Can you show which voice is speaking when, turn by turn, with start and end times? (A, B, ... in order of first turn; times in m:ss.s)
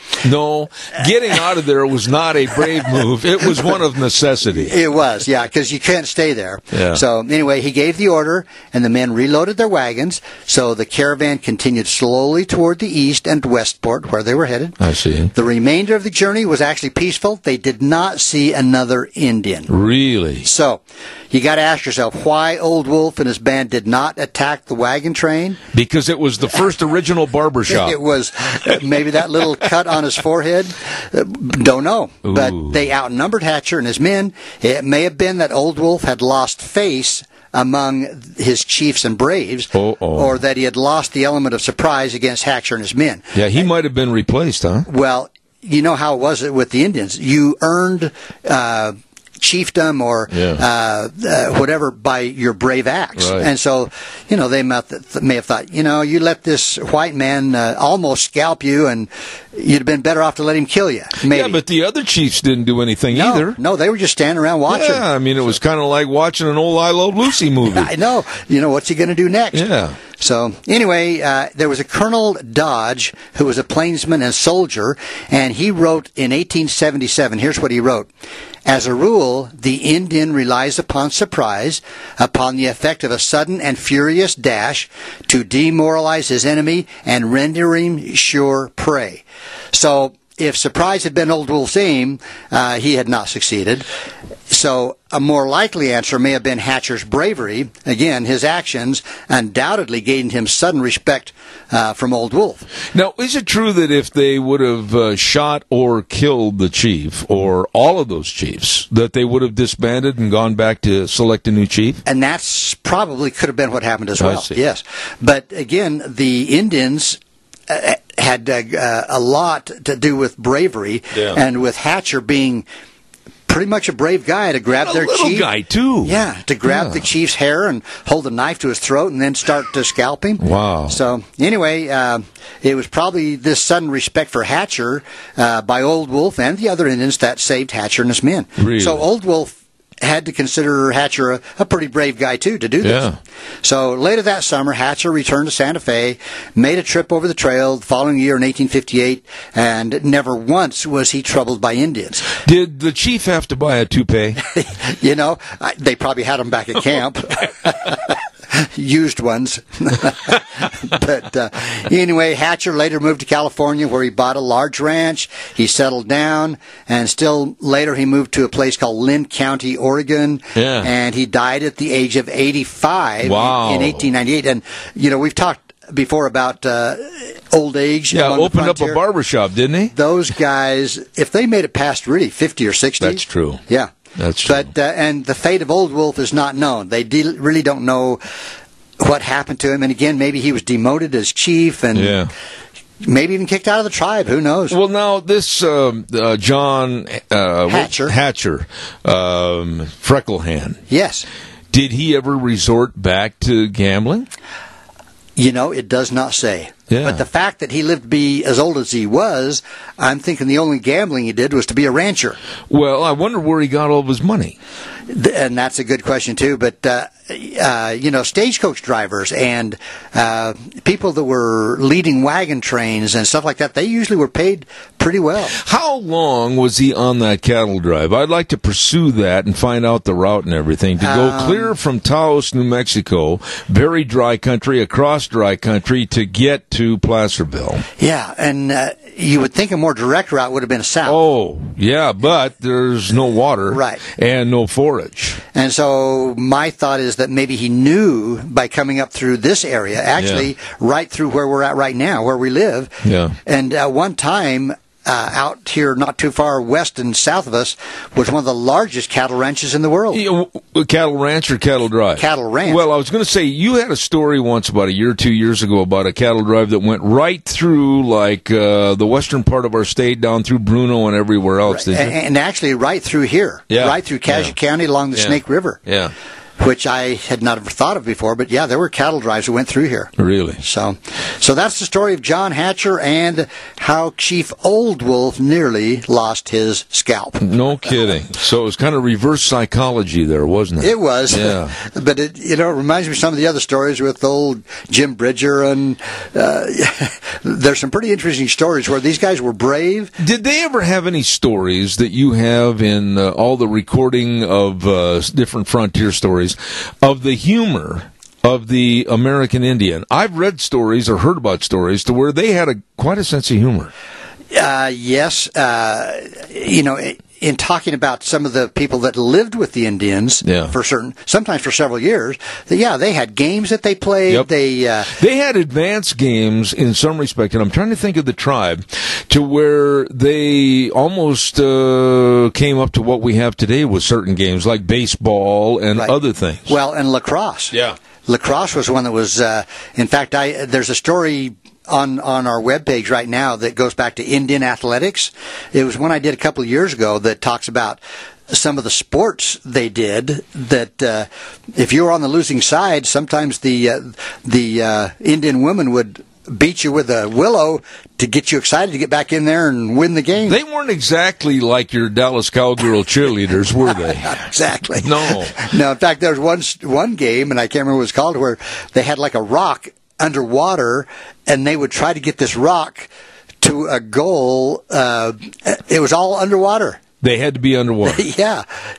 0:00.2-0:04.7 A
0:04.5-0:14.8 B
0:06.7-0:07.0 A
0:14.8-0:15.3 A
0:15.3-0:19.7 B
0:19.7-0:20.5 A
0:20.4-0:25.6 B
0:25.7-0:28.0 A
0:27.7-0:43.3 B
0:32.2-0:32.9 A
0:39.7-0:40.4 A
0:43.3-0:44.9 A
0:44.9-1:01.6 B
0:50.3-0:50.6 A
0:53.2-0:53.5 A
1:01.2-1:03.6 A
1:03.1-1:05.2 B
1:04.7-1:07.9 A
1:07.6-1:18.1 B
1:09.5-1:10.0 A
1:18.7-1:33.9 B
1:34.5-1:42.6 B
1:42.9-1:52.0 A
1:52.0-2:02.6 B
1:54.2-1:54.6 A
2:01.1-2:01.4 A
2:03.5-2:05.5 B
2:04.7-2:07.1 A
2:06.0-2:23.1 B
2:10.4-2:11.0 A
2:18.6-2:19.0 A
2:22.8-2:23.2 A
2:23.6-2:32.4 B
2:32.4-2:34.4 A
2:34.4-2:59.0 B
2:50.6-2:50.9 A
2:53.2-2:54.1 A
2:58.1-2:59.9 A
2:59.9-3:08.2 B
3:03.0-3:03.6 A
3:04.2-3:04.7 A
3:09.0-3:12.2 B
3:11.9-3:12.3 A
3:13.0-3:14.8 B
3:14.7-3:20.8 A
3:17.7-3:18.2 B
3:20.9-3:21.3 B
3:21.7-3:24.3 A
3:25.4-3:32.4 B
3:26.9-3:27.2 A
3:32.7-3:34.6 A
3:35.1-3:45.6 B
3:45.5-3:57.8 A
3:51.0-3:51.7 B
3:58.0-4:01.2 B
4:01.1-4:05.4 A
4:03.7-4:04.0 B
4:05.6-4:20.2 B
4:10.2-4:10.5 A
4:13.0-4:13.4 A
4:20.1-4:32.1 A
4:22.2-4:22.8 B
4:31.7-4:35.8 B
4:33.7-4:34.5 A
4:35.2-4:36.1 A
4:36.6-4:47.5 B
4:40.2-4:40.6 A
4:47.4-4:51.8 A
4:50.8-5:00.1 B
5:00.2-5:13.9 A
5:14.5-5:25.1 B
5:20.4-5:20.7 A
5:25.1-5:36.8 A
5:36.0-5:37.8 B
5:38.3-6:00.6 B
6:00.5-6:04.4 A
6:04.0-6:13.1 B
6:05.0-6:05.6 A
6:13.6-6:17.0 B
6:17.2-6:18.2 A
6:18.0-6:18.6 B